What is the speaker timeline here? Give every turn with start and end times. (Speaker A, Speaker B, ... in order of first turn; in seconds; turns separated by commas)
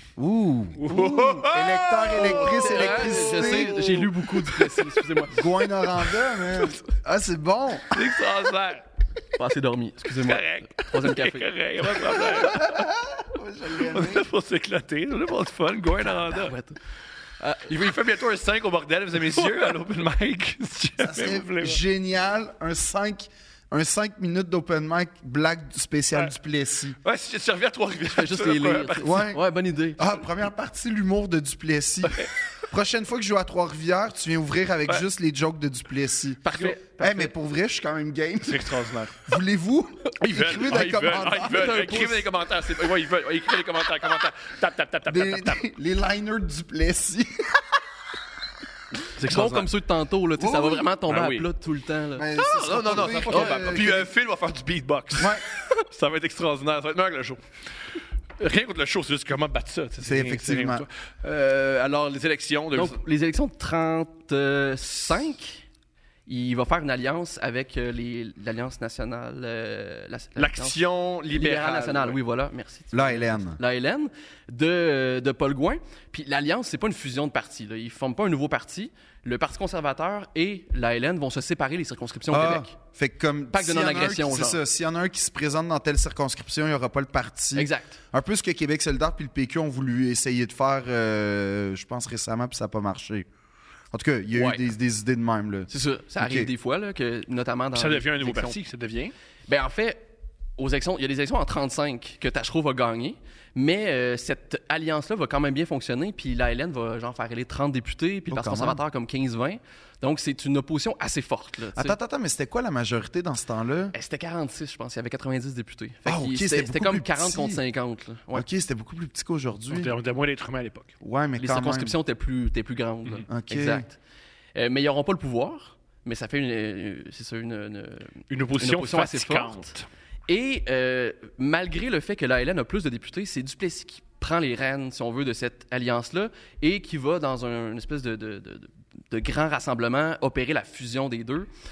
Speaker A: 0.2-4.0, Speaker B: 0.8-5.0, Speaker C: 2.1-5.5, Speaker A: 5.3-8.1, Speaker B: 7.9-8.8, Speaker C: 9.3-12.6, Speaker B: 10.2-12.8, Speaker A: 12.4-14.3, Speaker B: 13.8-16.5, Speaker C: 16.0-16.8, Speaker C: 17.4-17.7, Speaker B: 17.7-21.8, Speaker C: 19.4-19.8, Speaker A: 21.0-27.0, Speaker B: 27.0-29.1, Speaker C: 28.1-30.1, Speaker A: 29.0-29.4, Speaker A: 30.0-36.4, Speaker C: 36.4-37.3, Speaker A: 37.0-41.9, Speaker B: 38.5-39.2, Speaker C: 40.2-42.3, Speaker B: 40.3-45.6, Speaker A: 45.1-47.8, Speaker B: 49.2-49.7, Speaker C: 49.2-54.0, Speaker A: 50.4-50.9, Speaker B: 51.1-51.5, Speaker A: 52.2-54.1, Speaker B: 52.4-57.5, Speaker A: 55.2-55.5, Speaker B: 58.4-63.0, Speaker A: 60.0-60.9, Speaker C: 62.8-65.6, Speaker C: 66.3-82.7, Speaker B: 70.4-72.2, Speaker A: 72.9-73.6, Speaker A: 82.3-93.3, Speaker C: 83.5-84.6, Speaker C: 87.5-88.0, Speaker A: 93.9-96.5, Speaker C: 94.3-94.7, Speaker C: 95.7-98.6, Speaker B: 97.8-99.1, Speaker C: 99.5-100.0, Speaker C: 100.6-112.0, Speaker A: 108.3-108.8, Speaker A: 111.8-113.9, Speaker C: 113.9-118.5, Speaker A: 116.1-117.6, Speaker A: 118.3-119.9, Speaker B: 119.7-120.9, Speaker A: 121.0-122.0, Speaker C: 121.4-124.0, Speaker A: 123.3-123.8, Speaker C: 124.5-129.7, Speaker B: 128.3-129.9, Speaker C: 130.3-141.5